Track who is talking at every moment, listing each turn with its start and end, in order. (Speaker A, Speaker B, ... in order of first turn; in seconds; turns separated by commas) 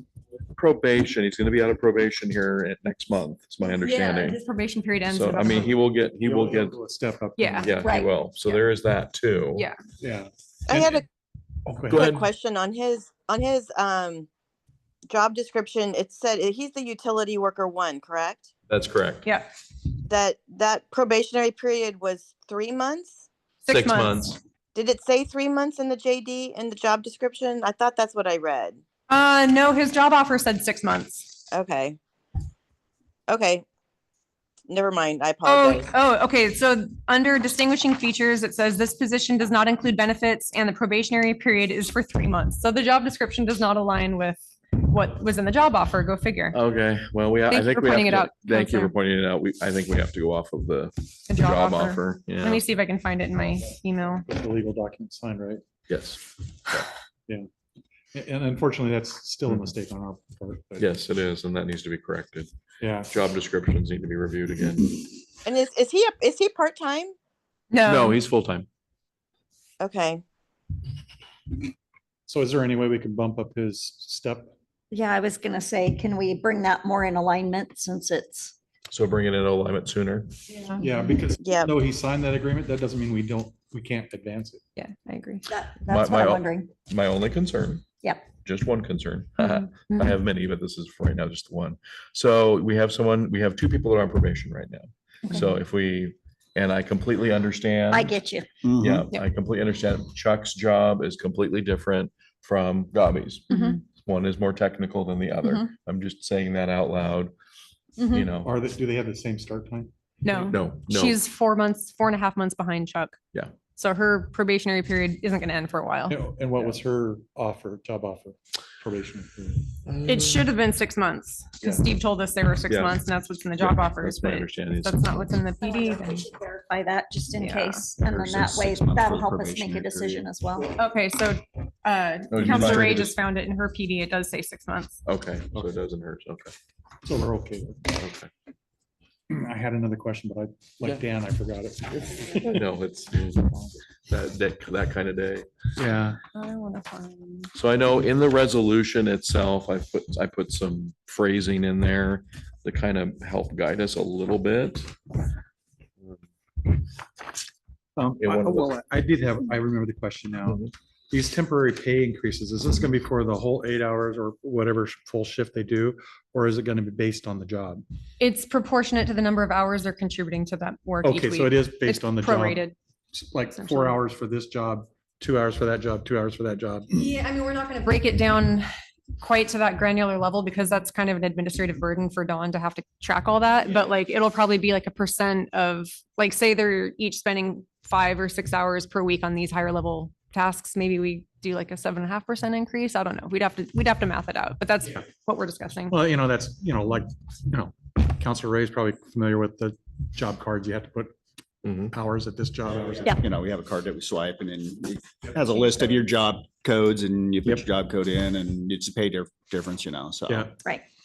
Speaker A: 0.5-4.4, Speaker B: 3.6-5.7, Speaker A: 5.1-6.8, Speaker C: 5.4-7.7, Speaker B: 7.4-7.8, Speaker A: 7.6-9.7, Speaker D: 7.8-8.1, Speaker C: 10.0-10.3, Speaker E: 10.7-11.1, Speaker C: 11.7-12.0, Speaker A: 11.8-12.3, Speaker E: 11.9-14.3, Speaker E: 15.1-18.4, Speaker A: 18.7-19.2, Speaker B: 19.2-19.5, Speaker E: 20.0-23.2, Speaker B: 23.6-24.4, Speaker A: 23.7-24.4, Speaker E: 24.8-28.8, Speaker B: 29.1-31.4, Speaker E: 31.5-32.0, Speaker E: 33.3-33.6, Speaker E: 34.7-35.9, Speaker B: 35.4-46.6, Speaker A: 46.5-52.6, Speaker B: 47.5-48.9, Speaker B: 51.3-54.2, Speaker C: 54.3-55.6, Speaker A: 55.9-56.9, Speaker C: 58.1-60.9, Speaker A: 60.8-62.5, Speaker C: 62.8-63.1, Speaker A: 63.1-65.1, Speaker E: 65.4-67.1, Speaker B: 67.7-68.2, Speaker A: 67.8-68.7, Speaker E: 69.8-70.2, Speaker C: 72.3-74.5, Speaker D: 74.9-78.5, Speaker A: 78.9-80.3, Speaker B: 80.5-80.8, Speaker C: 80.8-84.6, Speaker E: 81.4-81.7, Speaker B: 84.8-85.5, Speaker D: 85.5-86.7, Speaker A: 85.9-98.2, Speaker D: 88.0-88.3, Speaker B: 89.4-90.1, Speaker D: 97.9-98.6, Speaker F: 98.6-99.1, Speaker A: 98.8-107.3, Speaker B: 103.5-103.8, Speaker D: 108.0-108.3, Speaker A: 108.1-108.5, Speaker C: 108.4-109.9, Speaker B: 110.2-113.2, Speaker A: 110.3-111.2, Speaker B: 113.8-116.2, Speaker C: 116.1-119.7, Speaker A: 119.9-120.5, Speaker B: 120.1-126.3, Speaker A: 122.7-125.4, Speaker D: 125.7-130.8, Speaker B: 127.4-127.9, Speaker F: 128.0-130.3, Speaker B: 130.8-135.0, Speaker A: 132.3-133.2, Speaker A: 135.1-136.5, Speaker C: 137.0-137.9, Speaker A: 137.9-138.3, Speaker C: 139.3-142.6, Speaker A: 142.3-145.5, Speaker C: 145.8-146.2, Speaker B: 146.3-147.5, Speaker A: 147.6-154.9, Speaker C: 158.0-167.8, Speaker A: 158.2-158.7, Speaker B: 168.2-172.8, Speaker C: 171.0-177.1, Speaker B: 173.5-174.0, Speaker B: 176.9-178.7, Speaker B: 179.2-196.0, Speaker C: 195.9-201.1, Speaker A: 201.7-201.9, Speaker C: 201.9-203.2, Speaker F: 203.1-210.5, Speaker C: 210.3-210.6